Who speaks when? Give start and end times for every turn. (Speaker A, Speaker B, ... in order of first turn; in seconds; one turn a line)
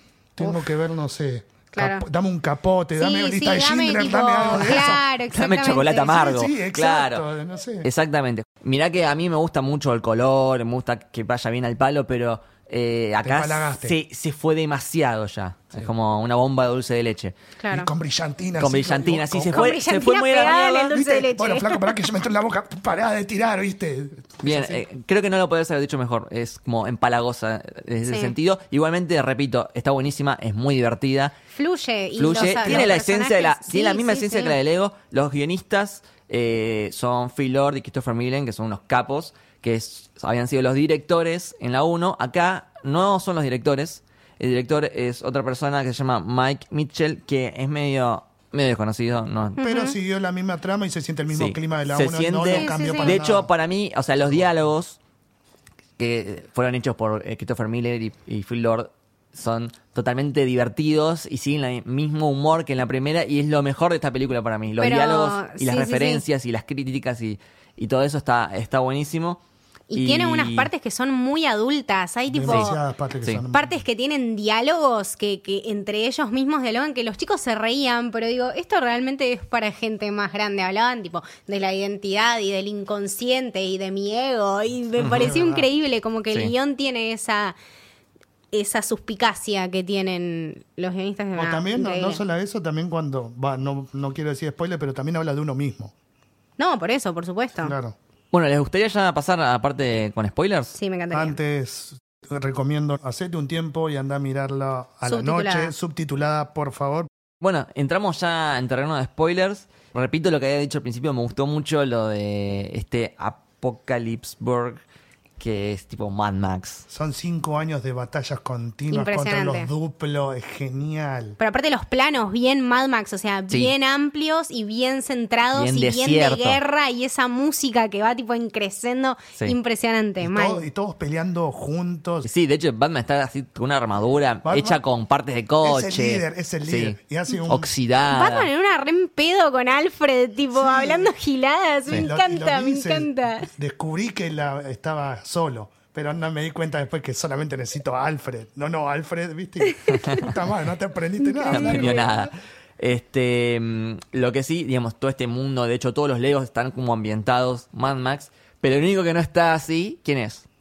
Speaker A: 0.3-5.0
Speaker B: 1.7-2.0
Speaker B: 3.0-6.2
Speaker C: 4.6-7.2
Speaker A: 6.1-7.9
Speaker C: 7.8-17.3
Speaker A: 13.2-13.9
Speaker B: 17.6-17.9
Speaker A: 17.7-19.7
Speaker C: 18.6-21.0
Speaker B: 19.5-21.9
Speaker A: 20.9-24.8
Speaker C: 24.4-31.3
Speaker B: 28.1-28.3
Speaker B: 31.5-34.6
Speaker C: 32.2-49.6
Speaker B: 49.6-49.9
Speaker A: 49.6-53.5
Speaker C: 51.3-55.0
Speaker B: 52.5-53.2
Speaker C: 56.0-69.4
Speaker B: 64.8-66.2
Speaker B: 69.9-72.8
Speaker C: 69.9-70.7
Speaker A: 72.3-73.8
Speaker B: 73.5-87.6
Speaker C: 85.0-85.3
Speaker A: 85.2-85.7
Speaker B: 88.5-92.2
Speaker A: 91.3-95.9
Speaker B: 96.6-97.7
Speaker A: 97.6-98.0
Speaker C: 98.3-100.7
Speaker B: 100.7-101.4
Speaker A: 101.1-107.1
Speaker B: 105.0-105.7
Speaker C: 107.4-114.8
Speaker C: 115.4-116.8
Speaker A: 116.9-121.4
Speaker B: 118.9-119.7
Speaker B: 121.4-130.6
Speaker C: 125.5-126.6
Speaker A: 130.2-132.3
Speaker C: 132.2-138.5
Speaker A: 134.4-134.8
Speaker A: 135.6-137.7
Speaker B: 138.1-143.5
Speaker A: 140.6-141.1
Speaker A: 141.9-152.3
Speaker B: 149.7-150.2
Speaker C: 149.9-150.3
Speaker B: 151.2-152.1
Speaker C: 151.5-160.4